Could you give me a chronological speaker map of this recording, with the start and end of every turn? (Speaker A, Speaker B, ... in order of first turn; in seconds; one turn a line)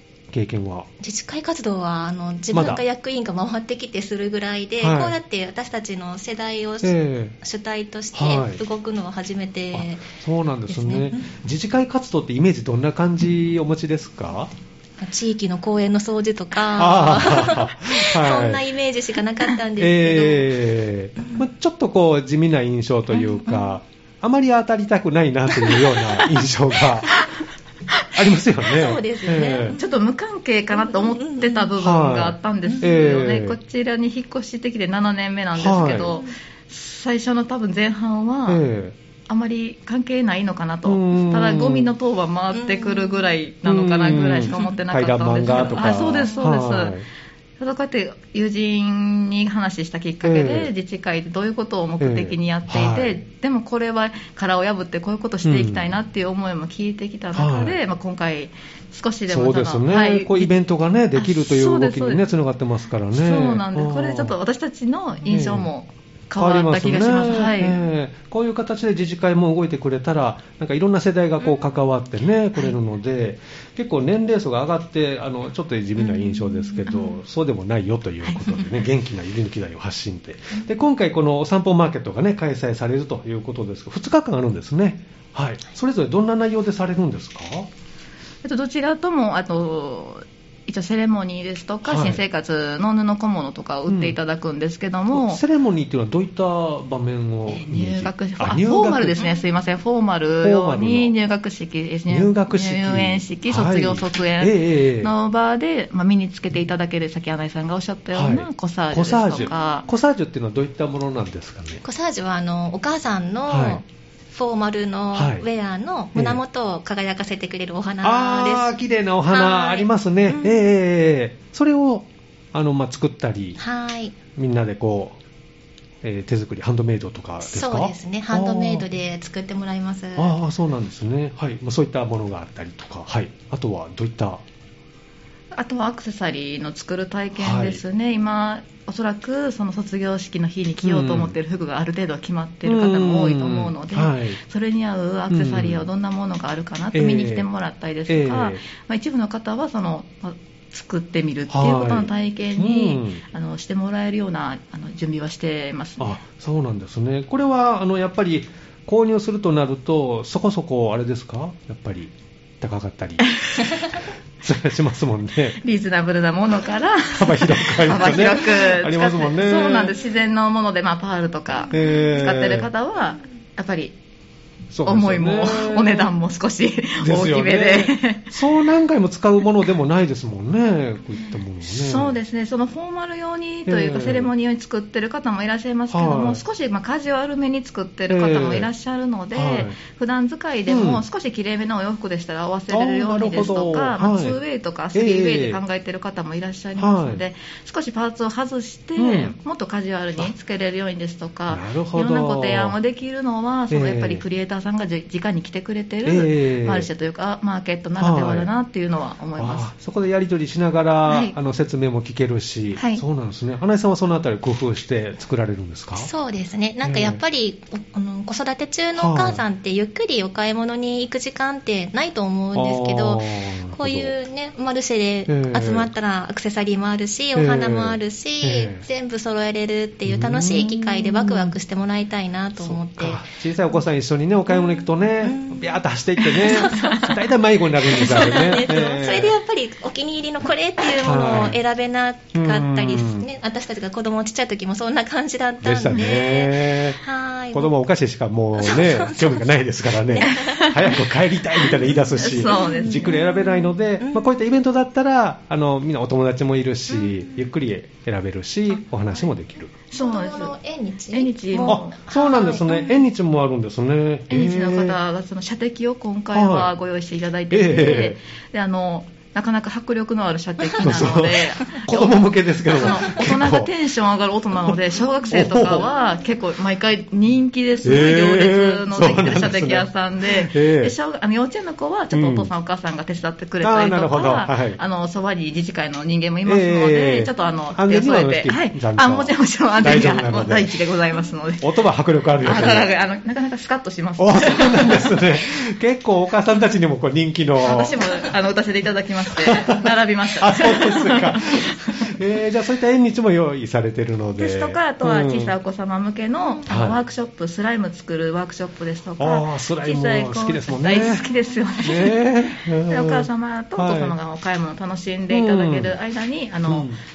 Speaker A: 0.3-0.9
Speaker B: 1.0-10.1
Speaker A: 2.5-2.8
Speaker A: 4.8-5.2
Speaker A: 6.8-7.4
Speaker A: 8.1-8.6
Speaker A: 9.7-14.5
Speaker B: 10.7-11.2
Speaker B: 15.0-20.6
Speaker A: 16.8-18.7
Speaker A: 19.8-27.2
Speaker B: 23.1-23.6
Speaker B: 25.5-25.8
Speaker A: 28.1-29.8
Speaker B: 28.7-30.0
Speaker C: 29.8-38.6
Speaker B: 30.7-31.7
Speaker A: 31.8-33.6
Speaker A: 35.5-36.2
Speaker A: 38.5-39.0
Speaker C: 39.3-47.0
Speaker A: 40.9-42.0
Speaker B: 42.5-43.3
Speaker A: 43.6-47.1
Speaker C: 47.6-60.5
Speaker A: 50.2-50.7
Speaker A: 52.0-53.2
Speaker A: 55.4-55.9
Speaker A: 57.3-57.8
Speaker A: 59.3-64.3
Speaker C: 61.1-62.3
Speaker C: 63.1-67.8
Speaker A: 65.3-65.7
Speaker A: 66.4-87.7
Speaker B: 71.4-71.8
Speaker B: 76.0-77.2
Speaker C: 88.4-95.4
Speaker A: 91.8-92.2
Speaker A: 93.9-94.2
Speaker A: 95.1-99.2
Speaker C: 97.5-109.9
Speaker A: 100.4-101.1
Speaker A: 102.1-105.1
Speaker A: 108.1-111.8
Speaker B: 111.8-118.7
Speaker A: 113.5-113.8
Speaker A: 115.1-115.5
Speaker A: 116.1-116.4
Speaker A: 118.0-123.6
Speaker B: 119.3-120.6
Speaker B: 123.6-124.2
Speaker A: 124.4-125.2
Speaker A: 126.0-128.9
Speaker B: 127.4-130.3
Speaker A: 130.2-134.4
Speaker C: 135.5-156.2
Speaker A: 137.3-137.8
Speaker A: 140.8-141.3
Speaker A: 142.7-144.4
Speaker A: 145.3-145.9
Speaker A: 146.9-147.5
Speaker A: 148.1-148.6
Speaker A: 151.5-153.2
Speaker A: 156.0-163.9
Speaker C: 163.3-163.8
Speaker A: 164.4-165.6
Speaker C: 165.6-174.0
Speaker A: 167.1-170.0
Speaker A: 171.7-172.7
Speaker A: 174.7-176.2
Speaker C: 174.8-178.3
Speaker A: 177.0-182.2
Speaker C: 181.6-209.7
Speaker A: 183.7-184.3
Speaker A: 185.9-186.4
Speaker A: 188.1-188.7
Speaker A: 189.3-189.8
Speaker A: 190.7-191.0
Speaker A: 192.7-194.4
Speaker A: 194.9-195.6
Speaker A: 196.8-197.2
Speaker A: 199.0-199.4
Speaker A: 201.5-202.8
Speaker A: 203.7-204.2
Speaker A: 206.1-206.9
Speaker A: 208.0-208.5
Speaker A: 209.4-216.1
Speaker C: 211.1-211.4
Speaker C: 212.8-213.0
Speaker B: 216.0-233.2
Speaker A: 216.8-217.2
Speaker A: 218.9-219.4
Speaker A: 222.5-224.1
Speaker A: 225.3-225.9
Speaker A: 227.3-228.9
Speaker A: 230.1-231.6
Speaker A: 232.6-239.3
Speaker B: 234.5-237.2
Speaker B: 237.8-247.8
Speaker A: 240.9-241.6
Speaker A: 242.3-243.3
Speaker A: 245.6-259.8
Speaker B: 248.6-254.2
Speaker C: 250.3-250.8
Speaker C: 252.2-253.2
Speaker B: 256.9-257.4
Speaker B: 259.9-263.0
Speaker C: 259.9-260.6
Speaker C: 261.1-262.1
Speaker A: 261.7-265.0
Speaker C: 264.3-291.7
Speaker A: 266.3-266.7
Speaker A: 267.5-268.2
Speaker A: 270.8-273.7
Speaker A: 275.3-275.9
Speaker A: 277.8-281.0
Speaker A: 282.1-282.5
Speaker A: 283.6-284.8
Speaker A: 286.4-290.7
Speaker A: 291.6-292.9
Speaker C: 292.4-295.3
Speaker A: 294.2-298.0
Speaker C: 297.6-302.1
Speaker A: 299.4-299.8
Speaker A: 300.4-305.6
Speaker C: 304.4-316.9
Speaker A: 306.7-307.0
Speaker A: 309.2-311.3
Speaker A: 311.8-314.2
Speaker A: 315.3-316.0
Speaker A: 316.7-317.0